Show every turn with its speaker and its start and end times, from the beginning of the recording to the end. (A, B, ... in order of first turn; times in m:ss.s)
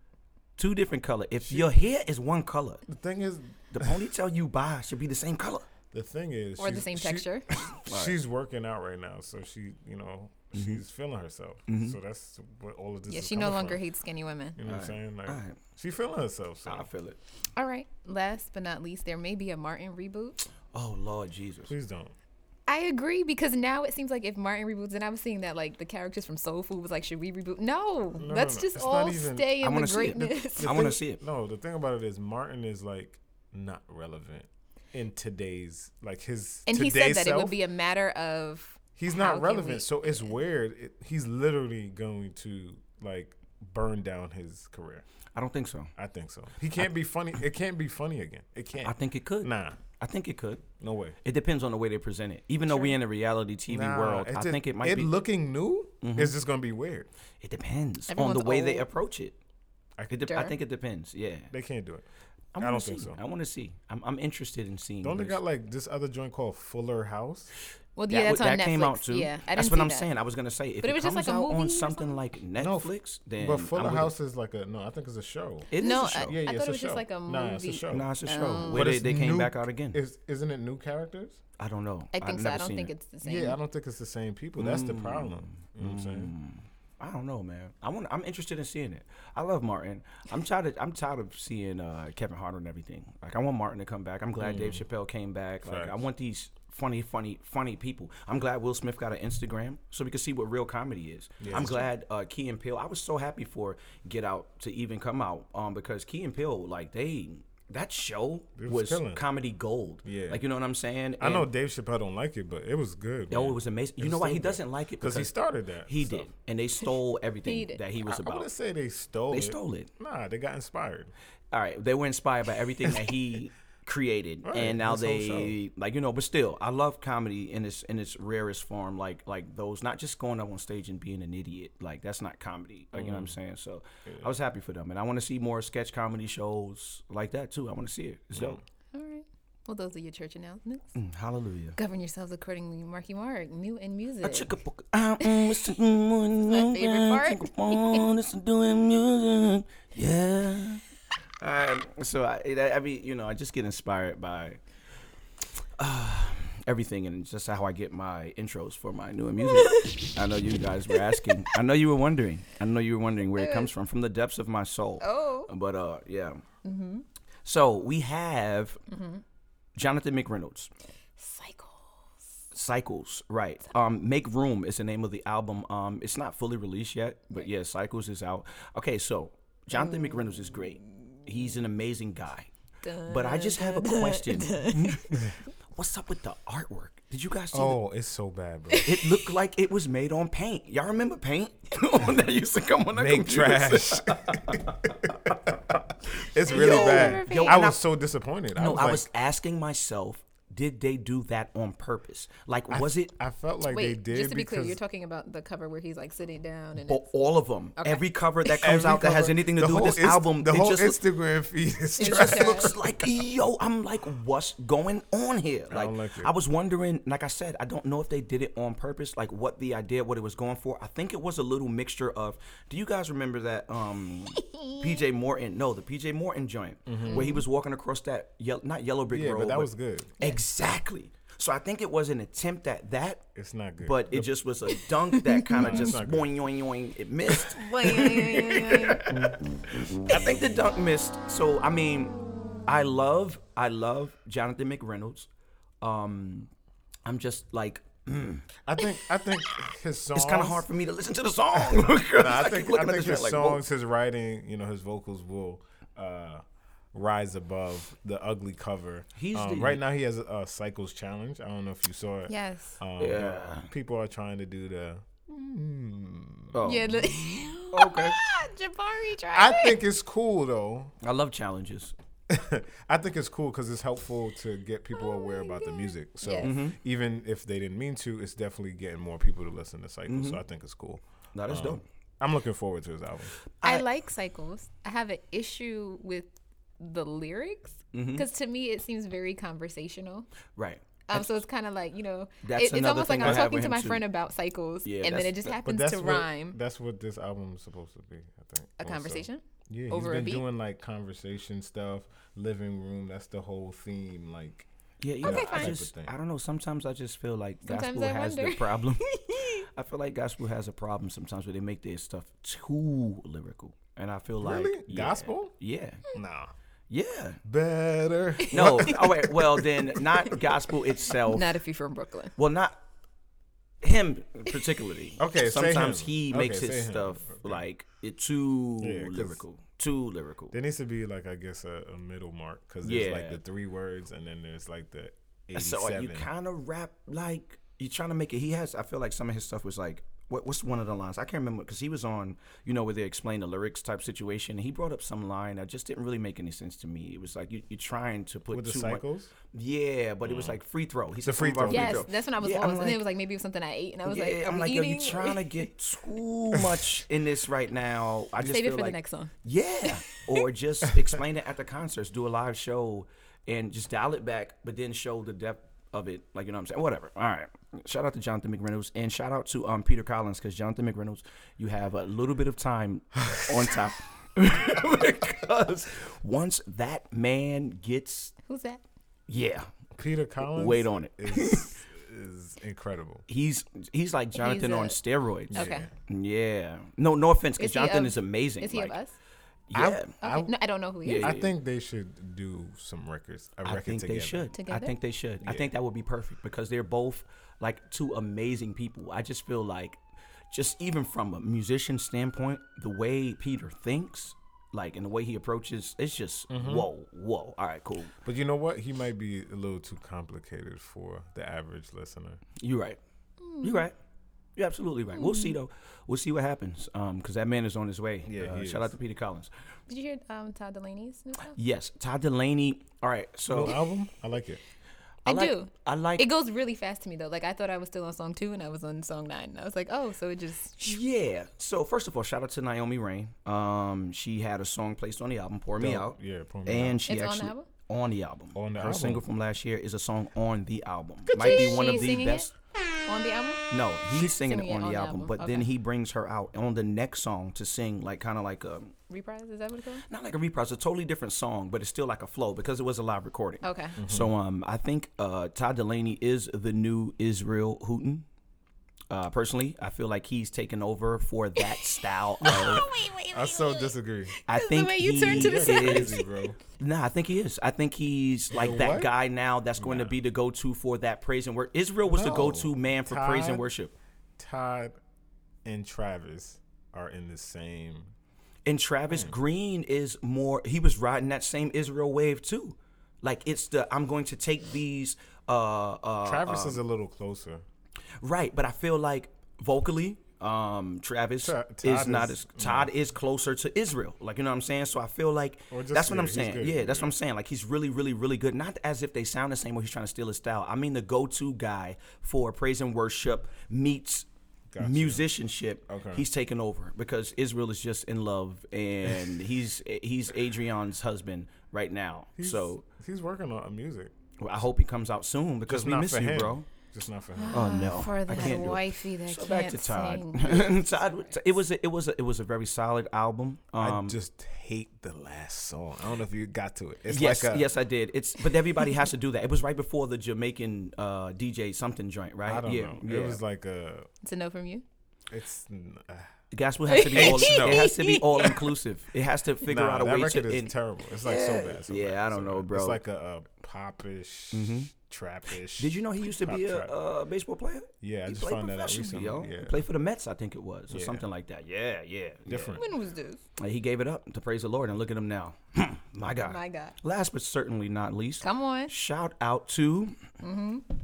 0:00.6-0:02.8 A
0:01.4-0:01.7 B
0:02.8-0:04.0 B
0:03.7-0:05.7 A
0:05.9-0:13.8 B
0:06.6-0:07.4 C
0:07.7-0:08.2 A
0:10.5-0:10.8 A
0:11.7-0:12.0 A
0:13.1-0:14.6 C
0:14.6-0:16.9 B
0:14.7-0:15.6 A
0:16.6-0:17.2 A
0:17.6-0:20.4 C
0:20.7-0:21.7 A
0:21.7-0:22.1 B
0:22.7-0:30.9 C
0:28.2-0:29.5 B
0:29.6-0:31.2 A
0:30.6-0:37.6 B
0:36.7-0:40.1 C
0:39.0-0:45.0 B
0:45.3-0:45.9 A
0:46.0-0:49.8 B
0:48.8-0:50.6 A
0:50.8-0:51.2 B
0:51.2-0:55.1 A
0:52.7-0:53.0 C
0:53.7-0:57.1 B
0:56.0-0:56.3 A
0:57.4-0:59.4 A
0:58.1-0:58.8 C
1:00.0-1:00.2 B
1:00.1-1:01.5 A
1:00.2-1:00.6 C
1:01.5-1:02.0 B
1:02.5-1:05.4 A
1:02.6-1:03.2 B
1:05.0-1:07.5 B
1:08.0-1:10.1 C
1:08.1-1:14.1 A
1:10.8-1:12.2 C
1:12.6-1:15.7 B
1:15.7-1:16.4 A
1:15.8-1:18.8 C
1:16.2-1:21.4 B
1:17.9-1:20.0 A
1:21.6-1:22.9 A
1:22.1-1:23.6 C
1:23.2-1:26.3 B
1:24.6-1:51.5 A
1:34.4-1:34.8 B
1:35.6-1:36.0 B
1:41.4-1:41.9 B
1:48.6-1:49.2 B
1:50.0-1:50.4 B
1:51.2-1:56.3 B
1:53.3-1:55.3 A
1:55.9-1:58.5 A
1:57.4-1:57.8 C
1:58.0-2:01.1 B
1:59.3-1:59.9 A
2:01.5-2:18.6 A
2:04.4-2:05.6 B
2:12.9-2:13.4 B
2:14.0-2:14.3 B
2:18.3-2:18.6 B
2:18.9-2:21.0 C
2:20.9-2:21.8 A
2:21.8-2:24.5 C
2:24.2-2:30.8 A
2:25.2-2:25.6 C
2:26.4-2:28.1 C
2:31.4-2:34.6 A
2:35.8-2:46.4 A
2:39.4-2:40.1 C
2:40.9-2:41.5 C
2:43.3-2:43.7 C
2:45.0-2:45.5 C
2:46.6-2:47.0 C
2:47.4-2:48.8 A
2:48.9-2:49.2 C
2:49.8-2:50.7 A
2:51.2-2:52.0 C
2:52.5-3:02.5 A
2:59.7-3:00.3 C
3:02.8-3:05.1 C
3:03.0-3:05.2 A
3:05.7-3:07.8 A
3:07.5-3:08.9 B
3:08.7-3:09.3 C
3:08.8-3:15.6 A
3:12.9-3:19.0 B
3:16.4-3:17.8 A
3:16.5-3:17.7 C
3:18.5-3:23.1 A
3:22.7-3:24.8 B
3:23.7-3:27.1 C
3:26.8-3:31.0 A
3:27.8-3:28.8 C
3:28.6-3:32.9 B
3:32.0-3:32.7 C
3:32.0-3:53.2 A
3:35.7-3:36.3 B
3:44.4-3:44.9 C
3:46.9-3:47.4 B
3:47.1-3:47.4 C
3:49.1-3:50.1 B
3:53.3-3:54.3 B
3:53.8-4:05.3 A
3:55.1-3:55.9 C
3:55.5-3:56.3 B
3:57.3-3:59.1 C
4:05.8-4:06.5 A
4:07.0-4:08.5 A
4:08.6-4:10.7 B
4:10.1-4:13.6 A
4:11.6-4:16.4 B
4:16.9-4:27.2 B
4:19.1-4:19.8 A
4:22.3-4:22.8 C
4:23.0-4:23.7 A
4:26.5-4:27.0 A
4:26.6-4:29.8 C
4:27.7-4:28.2 A
4:29.3-4:30.9 B
4:31.0-4:31.9 A
4:32.3-4:43.4 B
4:34.9-4:36.5 C
4:36.4-4:36.8 A
4:40.1-4:40.4 A
4:41.3-4:41.8 A
4:43.6-4:43.8 A
4:43.6-4:50.3 C
4:47.9-4:48.2 A
4:50.6-4:51.4 A
4:51.1-4:56.6 C
4:52.4-4:54.0 A
4:54.8-4:55.5 A
4:55.6-5:04.7 B
4:58.8-5:00.4 C
5:05.0-5:16.0 A
5:05.2-5:06.1 B
5:05.2-5:05.8 C
5:07.6-5:09.6 C
5:14.4-5:15.5 B
5:16.1-5:16.5 B
5:16.9-5:17.4 A
5:17.4-5:19.6 B
5:18.4-5:20.6 C
5:18.5-5:21.5 A
5:21.1-5:22.3 C
5:22.4-5:22.8 A
5:23.8-5:30.5 A
5:25.2-5:27.6 B
5:28.8-5:29.4 B
5:30.5-5:36.3 B
5:32.8-5:33.4 A
5:35.5-5:53.0 A
5:48.5-5:49.3 B
5:50.2-5:50.6 B
5:51.2-5:52.1 B
5:51.7-5:55.6 C
5:54.0-6:18.3 A
5:56.5-5:56.8 B
5:58.4-6:00.4 C
6:13.2-6:13.8 B
6:18.5-6:18.8 C
6:19.3-6:19.7 A
6:20.0-6:23.2 B
6:20.4-6:21.7 A
6:23.3-6:29.0 A
6:24.4-6:25.0 C
6:25.5-6:25.9 B
6:25.5-6:25.9 C
6:27.6-6:29.1 C
6:29.7-6:30.1 A
6:29.7-6:30.5 B
6:30.2-6:31.4 C
6:31.0-6:31.5 A
6:31.1-6:34.5 B
6:33.6-6:48.1 A
6:34.5-6:34.9 C
6:35.4-6:35.7 B
6:46.5-6:46.9 B
6:48.2-6:52.4 B
6:52.6-6:53.0 A
6:53.4-6:53.9 C
6:53.6-6:54.0 A
6:54.6-6:59.5 A
6:55.1-6:55.6 C
6:58.2-6:58.9 B
6:59.9-7:01.6 C
7:01.5-7:03.8 A
7:03.5-7:04.6 B
7:05.2-7:11.0 C
7:05.2-7:06.3 A
7:10.8-7:22.5 A
7:15.8-7:17.0 B
7:17.1-7:17.7 C
7:18.5-7:19.2 B
7:21.3-7:22.1 B
7:21.3-7:22.5 C
7:23.0-7:25.7 C
7:23.7-7:28.9 A
7:29.1-7:30.0 C
7:30.1-7:38.2 A
7:33.6-7:34.0 C
7:34.0-7:34.3 B
7:39.1-7:42.9 A
7:41.6-7:46.4 C
7:42.5-7:44.4 B
7:44.5-7:46.2 A
7:45.2-7:46.6 B
7:46.8-7:53.9 A
7:48.5-7:49.1 B
7:49.8-7:50.1 B
7:52.1-7:53.7 B
7:54.4-7:55.0 B
7:55.6-7:58.1 B
7:58.6-8:06.8 A
7:59.1-7:59.3 B
8:06.2-8:07.6 B
8:08.2-8:24.3 A
8:11.4-8:12.9 B
8:15.7-8:17.1 B
8:24.7-8:25.3 B
8:24.8-8:32.8 A
8:25.9-8:26.2 B
8:32.4-8:34.1 B
8:34.4-8:36.6 A
8:35.7-8:38.7 B
8:37.4-8:40.9 C
8:37.5-8:44.2 A
8:43.8-8:47.7 B
8:47.1-8:53.4 A
8:52.4-8:54.1 B
8:54.2-8:54.8 C
8:55.3-8:56.3 B
8:56.5-9:03.0 A
8:56.9-8:58.7 C
8:57.1-8:57.9 B
8:59.6-9:07.0 B
9:04.5-9:04.9 A
9:05.8-9:12.8 A
9:08.0-9:09.8 B
9:10.9-9:11.2 B
9:12.4-9:12.8 B
9:12.8-9:13.4 C
9:13.6-9:20.2 A
9:16.4-9:17.0 C
9:18.4-9:18.9 C
9:20.4-9:20.8 C